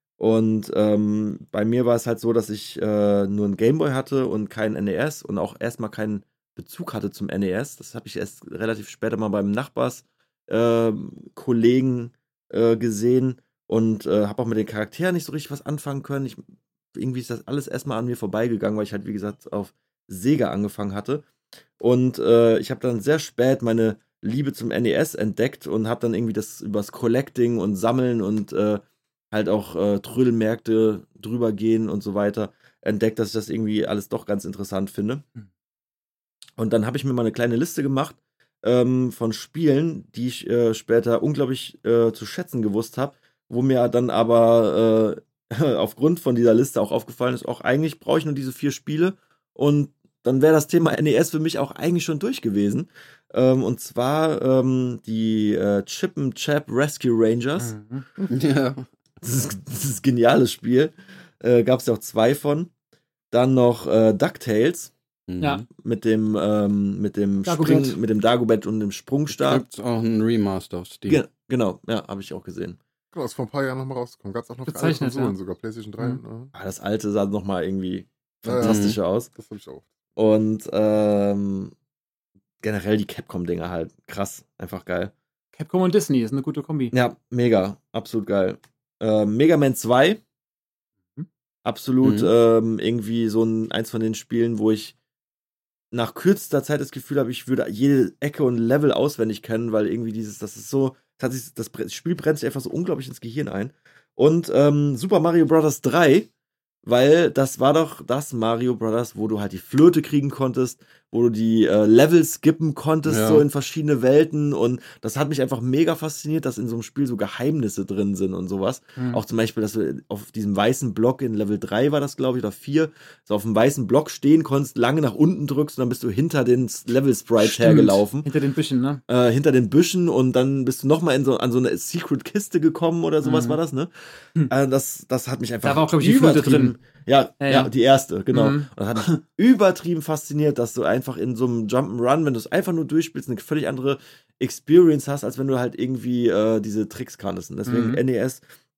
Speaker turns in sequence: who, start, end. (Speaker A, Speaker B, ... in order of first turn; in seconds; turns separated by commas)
Speaker A: 0.2-16.4, Speaker A: 16.9-21.2, Speaker A: 21.8-35.2, Speaker A: 36.6-57.7, Speaker B: 57.6-58.0, Speaker C: 58.3-58.8, Speaker A: 59.2-62.7, Speaker A: 63.3-64.9, Speaker C: 65.3-65.7, Speaker A: 65.8-69.6, Speaker B: 67.4-68.0, Speaker C: 69.3-71.2, Speaker A: 71.1-72.8, Speaker D: 73.1-76.5, Speaker B: 74.7-75.3, Speaker A: 76.5-79.3, Speaker D: 78.4-79.8, Speaker C: 78.5-79.0, Speaker A: 80.2-81.7, Speaker A: 82.6-85.1, Speaker B: 85.5-86.9, Speaker A: 86.9-90.2, Speaker A: 91.6-94.9, Speaker C: 92.0-92.3, Speaker A: 95.9-106.3, Speaker A: 106.8-128.3, Speaker C: 113.1-113.4, Speaker B: 127.4-129.0, Speaker A: 129.1-148.4, Speaker B: 133.2-133.6, Speaker B: 135.6-136.8, Speaker B: 137.4-137.7, Speaker B: 138.3-138.7, Speaker B: 147.7-148.0